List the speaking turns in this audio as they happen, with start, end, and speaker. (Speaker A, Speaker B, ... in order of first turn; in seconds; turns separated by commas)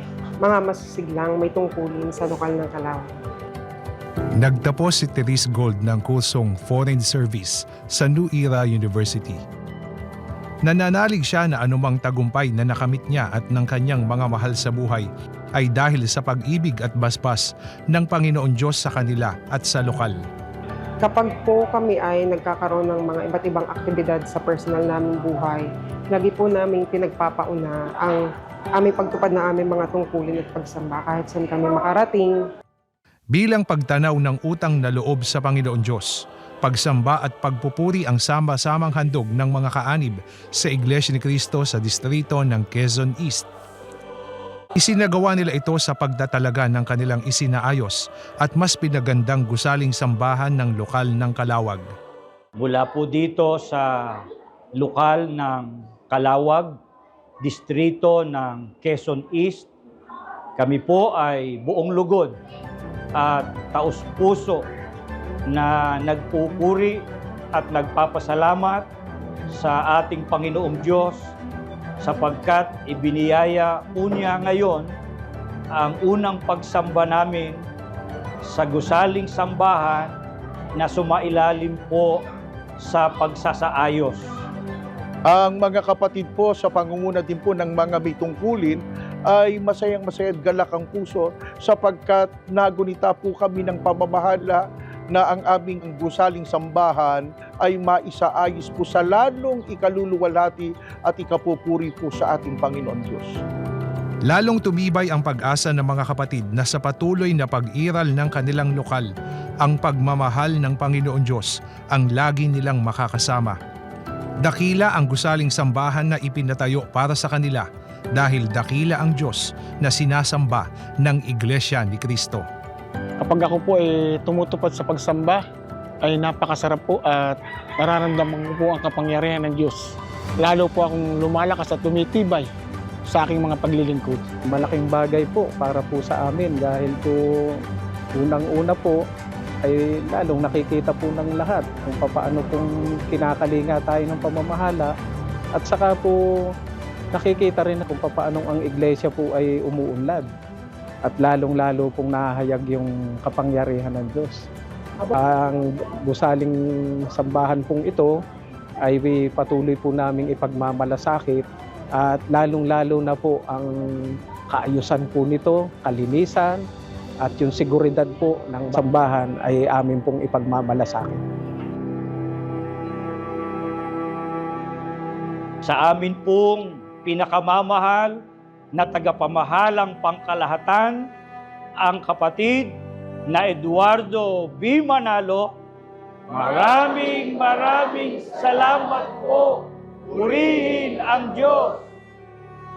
Speaker A: 0.4-3.0, Speaker B: 4.4-9.4, Speaker B: 10.6-20.2, Speaker A: 21.0-28.2, Speaker A: 28.8-32.4, Speaker B: 33.3-43.5, Speaker B: 44.8-51.9, Speaker C: 52.6-54.2, Speaker C: 54.8-56.8, Speaker C: 57.4-59.7, Speaker C: 60.6-62.4, Speaker C: 63.2-64.7, Speaker C: 65.5-68.9, Speaker C: 69.5-71.3, Speaker C: 72.0-74.9, Speaker C: 75.7-77.6, Speaker C: 78.5-80.1, Speaker C: 80.8-82.2, Speaker C: 82.8-84.3, Speaker D: 85.3-103.4, Speaker B: 104.3-109.1, Speaker B: 109.6-113.6, Speaker B: 114.4-122.5, Speaker E: 123.2-125.4, Speaker E: 126.0-132.5, Speaker E: 133.1-134.3, Speaker F: 134.5-137.6, Speaker F: 138.2-139.0, Speaker F: 139.6-144.9, Speaker F: 145.6-146.3, Speaker F: 147.1-150.3, Speaker F: 151.0-154.4, Speaker F: 155.1-156.6, Speaker F: 157.1-158.1, Speaker F: 158.8-161.4, Speaker F: 161.9-166.6, Speaker F: 167.2-171.2, Speaker C: 175.6-178.2, Speaker C: 178.7-181.0, Speaker C: 181.8-182.8, Speaker C: 183.3-185.5, Speaker C: 186.3-191.8